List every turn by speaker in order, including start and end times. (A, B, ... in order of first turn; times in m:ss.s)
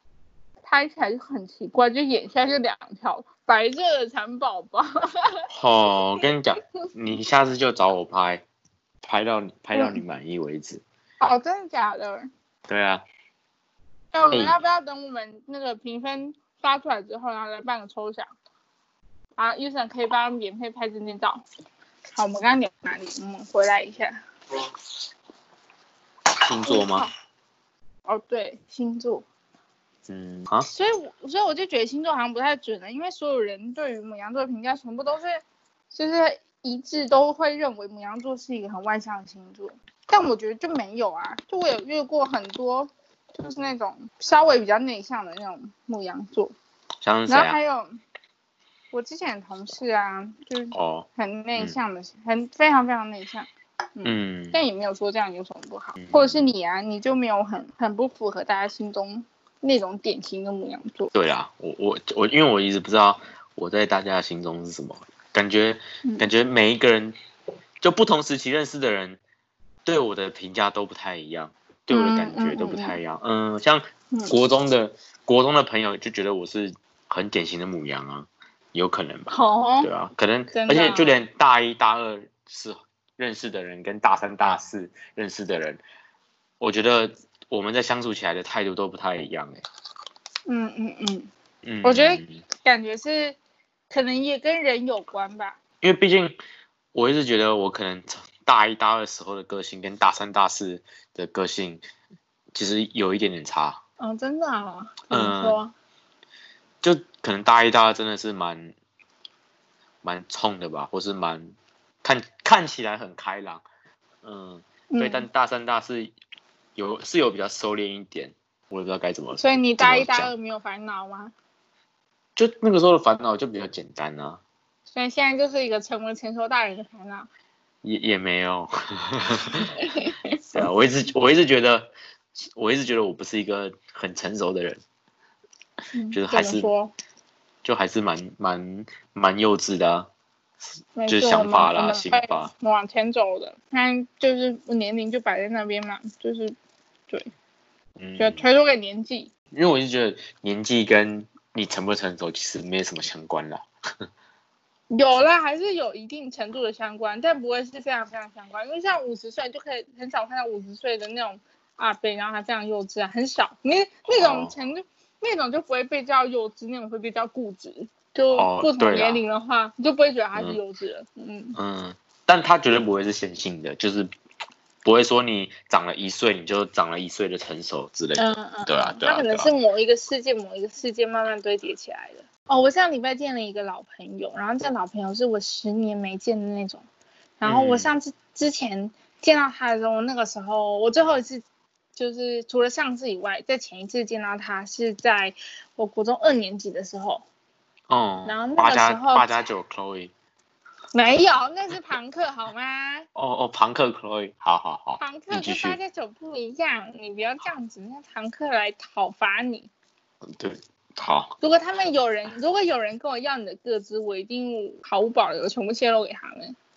0:00.6-0:05.4 A
0:05.5-0:08.4 B
0:09.0-0:10.8 B
0:09.7-0:10.0 A
0:11.2-0:12.3 A
0:12.7-0:13.0 B
0:14.1-0:18.3 A
0:14.3-0:14.6 B
0:19.4-0:21.4 A
0:22.1-0:24.2 A
0:26.4-0:27.1 B
0:26.6-0:27.1 A
0:28.0-0:29.2 A
0:30.1-0:30.7 B
0:30.7-0:46.5 A
0:47.0-0:47.6 B
0:47.3-0:48.0 A
0:48.9-1:01.1 A
0:50.7-0:51.8 B
0:54.0-0:54.6 B
0:56.0-0:56.4 B
1:01.1-1:07.1 B
1:07.8-1:09.2 B
1:09.9-1:25.8 B
1:11.9-1:13.0 A
1:19.3-1:19.9 A
1:20.5-1:21.2 A
1:26.6-1:29.6 B
1:30.5-1:31.3 A
1:31.6-1:32.4 B
1:31.8-1:33.4 A
1:33.9-1:35.6 A
1:35.8-1:36.4 B
1:36.9-1:41.8 B
1:42.5-1:43.8 B
1:44.0-1:45.7 A
1:45.1-1:45.6 B
1:46.8-1:48.7 B
1:50.0-1:53.6 B
1:54.2-1:56.1 B
1:54.9-1:55.2 A
1:56.8-2:00.3 B
1:59.4-2:01.3 A
2:02.4-2:04.4 B
2:04.9-2:07.3 A
2:07.8-2:09.7 B
2:09.8-2:10.6 A
2:10.5-2:14.8 B
2:15.9-2:16.9 A
2:16.1-2:16.7 B
2:17.6-2:20.1 B
2:21.0-2:26.5 A
2:21.1-2:22.5 B
2:28.0-2:28.4 B
2:28.2-2:29.3 A
2:29.5-2:33.6 B
2:34.9-2:51.6 A
2:44.1-2:44.5 B
2:48.3-2:49.2 B
2:51.5-2:54.1 B
2:54.8-2:59.5 B
2:58.2-3:06.8 A
3:07.4-3:11.4 A
3:07.4-3:07.9 B
3:12.0-3:17.2 A
3:17.9-3:20.1 B
3:18.2-3:19.4 A
3:20.9-3:23.0 A
3:23.1-3:25.8 B
3:25.0-3:29.7 A
3:30.4-3:31.4 B
3:31.4-3:36.6 A